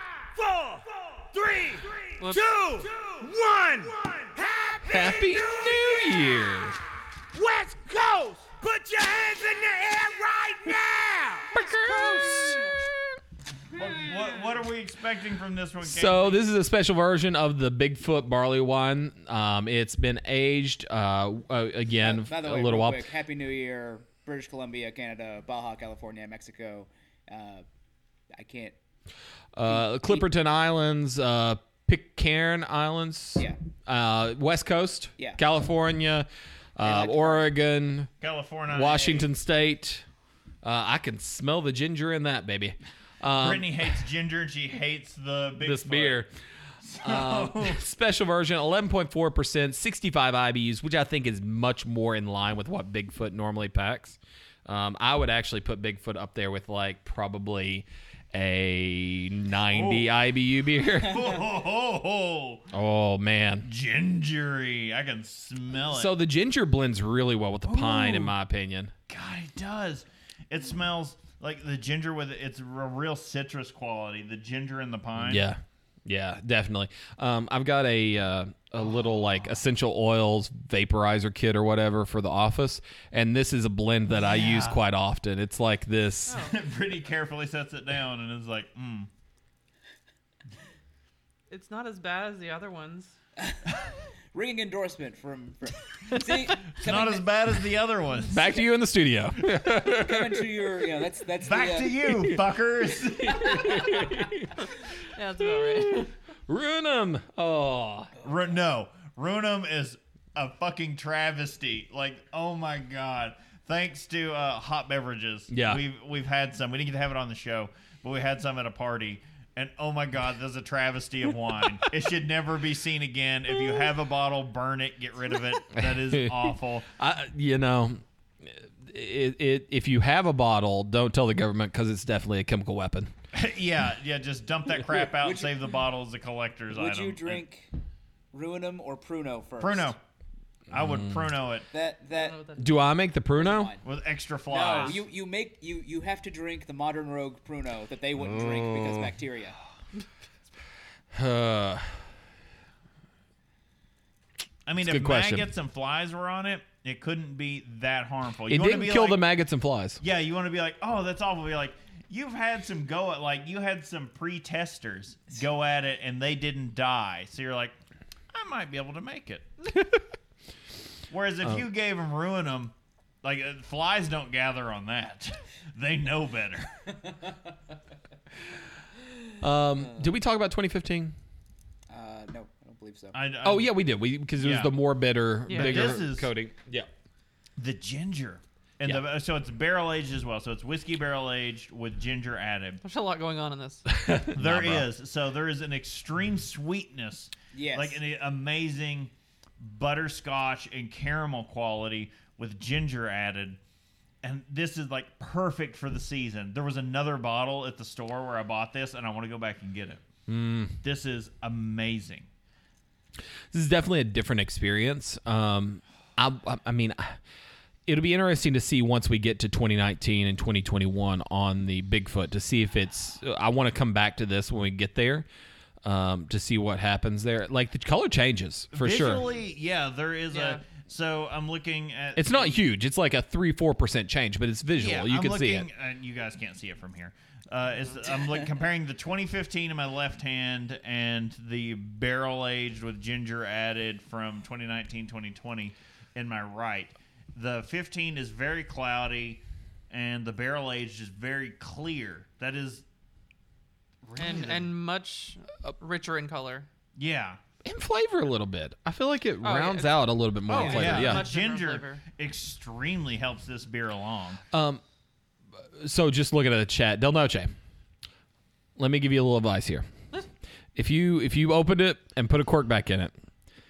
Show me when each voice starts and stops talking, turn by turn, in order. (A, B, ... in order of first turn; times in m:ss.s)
0:02.2-0:02.6 A
0:02.4-0:03.9 B
0:04.6-0:05.5 B
0:04.8-0:06.8 C
0:07.4-0:11.4 B
0:11.5-0:13.0 C
0:13.7-0:16.4 D
0:15.8-0:23.1 C
0:22.0-0:27.6 E
0:28.3-0:28.8 E
0:29.5-0:38.1 C
0:29.6-0:30.3 E
0:36.8-0:37.4 E
0:38.2-0:39.3 D
0:38.7-0:40.0 C
0:40.6-0:43.9 C
0:43.4-0:46.2 D
0:45.6-0:46.3 C
0:46.8-0:47.8 D
0:47.0-1:01.2 C
0:59.7-1:00.1 D
1:00.9-1:02.7 D
1:02.7-1:03.7 C
1:03.6-1:06.1 D
1:05.8-1:08.9 C
1:07.6-1:08.3 D
1:09.1-1:15.4 D
1:15.2-1:26.4 C
1:24.1-1:24.8 D
1:26.3-1:26.6 A
1:26.4-1:29.1 D
1:31.5-1:33.1 A
1:33.4-1:37.3 E
1:36.8-1:38.5 D
1:38.3-1:40.5 C
1:39.7-1:42.0 E
1:41.4-1:44.0 D
1:42.1-1:42.4 C
1:43.2-1:44.7 C
1:45.1-1:46.1 A
1:45.6-1:48.1 C
1:48.2-2:06.9 D
1:55.5-1:55.8 C
2:05.7-2:13.1 C
2:13.3-2:17.4 D
2:15.2-2:15.5 E
2:16.7-2:17.7 E
2:18.3-2:19.9 E
2:19.6-2:20.0 D
2:20.7-2:21.6 D
2:20.7-2:21.2 C
2:21.7-2:22.5 E
2:22.1-2:22.8 A
2:22.6-2:23.7 C
2:23.3-2:23.8 E
2:23.8-2:25.0 D
2:24.5-2:29.6 E
2:28.2-2:29.1 C
2:31.1-2:31.9 C
2:34.6-2:39.2 D
2:34.8-2:35.5 C
2:38.5-2:40.0 C
2:40.0-2:47.8 D
2:48.3-2:49.5 D
2:51.1-2:56.9 D
2:59.4-3:01.1 C
2:59.8-3:00.1 E
3:01.9-3:03.2 E
3:03.1-3:03.7 D
3:03.4-3:06.9 C
3:04.4-3:04.7 D
3:05.5-3:05.9 A
3:05.5-3:06.3 D
3:07.6-3:12.8 D
3:12.8-3:13.8 A
3:13.9-3:14.9 C
3:14.3-3:23.6 D
3:17.5-3:18.0 E
3:24.2-3:30.0 D
3:30.3-3:30.8 C
3:30.8-3:32.3 D
3:33.5-3:37.2 C
3:37.9-3:45.2 C
3:45.8-3:49.2 C
3:48.7-3:52.6 D
3:50.3-3:50.6 A
3:52.2-3:55.7 C
3:54.8-4:12.8 D
4:14.0-4:14.7 D
4:14.2-4:16.7 A
4:17.0-4:17.4 D
4:17.6-4:21.3 C
4:19.4-4:22.0 A
4:20.6-4:24.4 D
4:24.5-4:24.8 C
4:25.7-4:27.5 C
4:28.8-4:29.9 C
4:30.8-4:33.1 C